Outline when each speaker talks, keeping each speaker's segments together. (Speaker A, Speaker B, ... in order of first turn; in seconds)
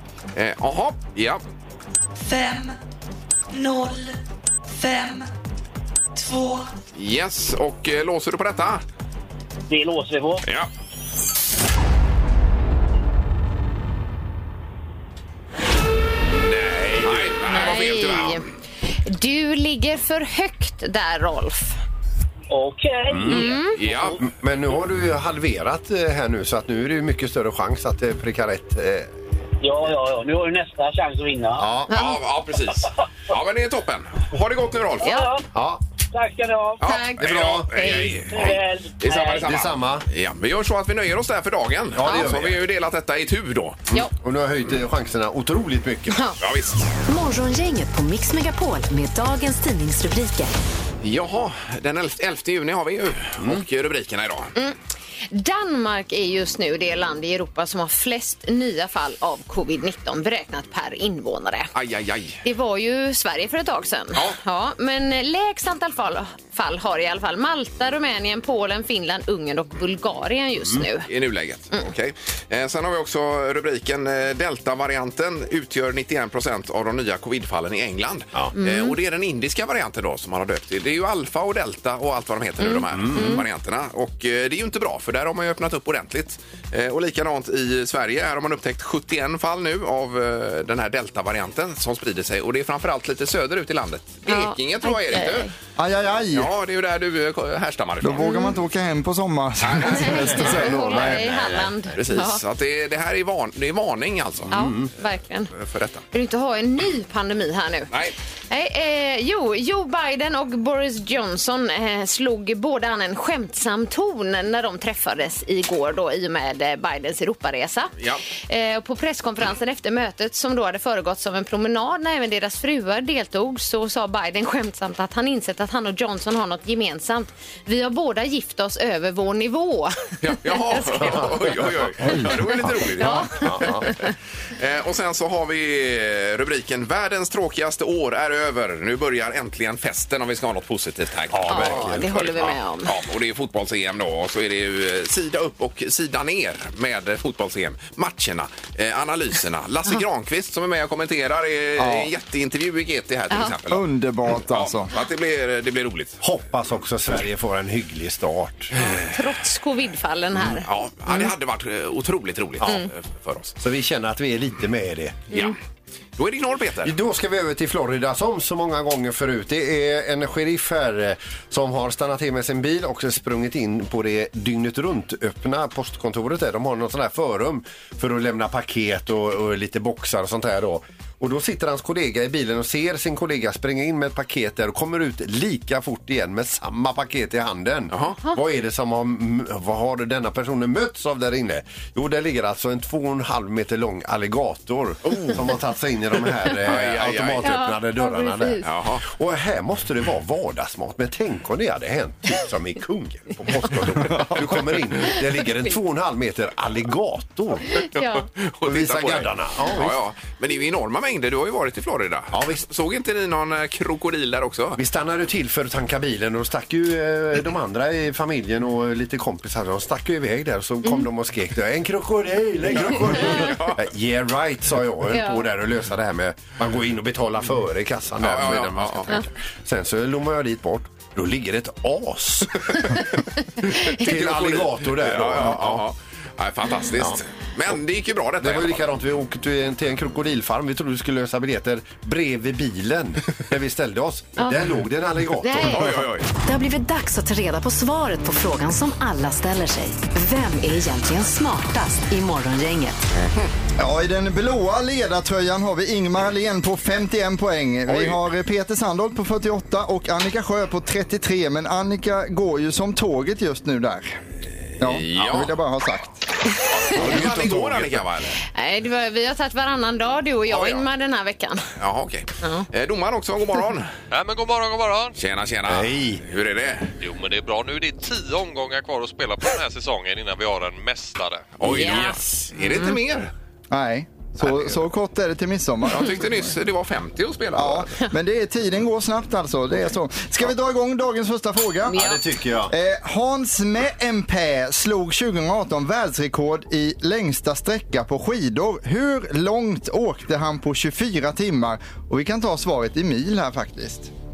Speaker A: 0.3-1.4, 7.0-8.8, 16.5-18.4, 23.8-24.2, 31.9-35.1, 36.8-43.8, 46.4-46.9, 51.0-54.5, 61.8-62.4, 71.1-95.5, 96.3-98.2, 99.6-101.2, 102.0-104.5, 105.5-106.0, 118.0-118.2, 130.2-133.8, 134.6-153.8, 154.4-156.2, 160.6-163.6, 166.2-166.9, 195.1-195.4, 196.5-197.6, 198.6-199.0, 208.0-214.8, 222.7-223.8, 228.2-229.2, 234.1-238.8, 245.7-246.3, 253.2-253.5, 257.9-258.2, 264.8-265.5, 266.9-268.4, 270.5-270.8, 271.8-273.9, 275.2-276.9, 281.6-283.3, 284.4-284.8, 285.9-287.9
Speaker B: 2.2-2.8, 3.5-4.2, 4.8-5.3, 6.2-6.7
Speaker C: 9.7-10.4, 22.5-24.1, 29.6-31.6, 35.0-35.5, 36.1-36.8, 38.3-39.5
Speaker D: 16.6-17.1, 23.1-23.5, 24.2-29.1, 31.6-31.9, 35.5-35.8, 37.2-38.4, 39.4-40.0, 41.9-42.6, 43.9-46.2, 82.9-83.4, 100.3-101.7, 104.5-104.9, 131.0-133.9, 141.3-142.6, 156.2-158.9, 163.6-165.2, 166.8-207.8, 208.7-210.0, 212.3-212.7, 214.8-233.1, 233.8-235.8, 238.4-246.0, 266.9-268.1, 275.7-276.2, 281.6-282.5, 291.9-292.7
Speaker E: 17.5-18.4, 19.0-21.8, 23.3-23.8, 31.9-32.2, 35.0-35.3, 36.8-38.3, 46.1-46.4, 55.3-61.7, 62.4-71.1, 78.6-79.0, 82.6-83.4, 94.3-95.5, 98.2-98.6, 100.0-102.4, 104.5-105.5, 106.1-107.9, 108.5-117.9, 118.5-131.3, 133.0-134.1, 141.5-142.9, 158.8-161.3, 162.6-162.9, 197.4-198.7, 207.8-208.3, 225.1-225.5, 233.6-234.2, 245.4-245.8, 268.5-271.7, 272.4-272.7, 281.7-282.9, 291.9-292.2
Speaker F: 47.1-50.5, 246.4-253.0
Speaker G: 95.8-96.5, 98.0-101.2, 151.8-152.1, 153.7-154.9, 253.8-264.2, 264.8-266.3, 283.7-286.5, 287.5-292.1, 292.7-304.1
Speaker H: 274.1-275.2, 277.0-281.6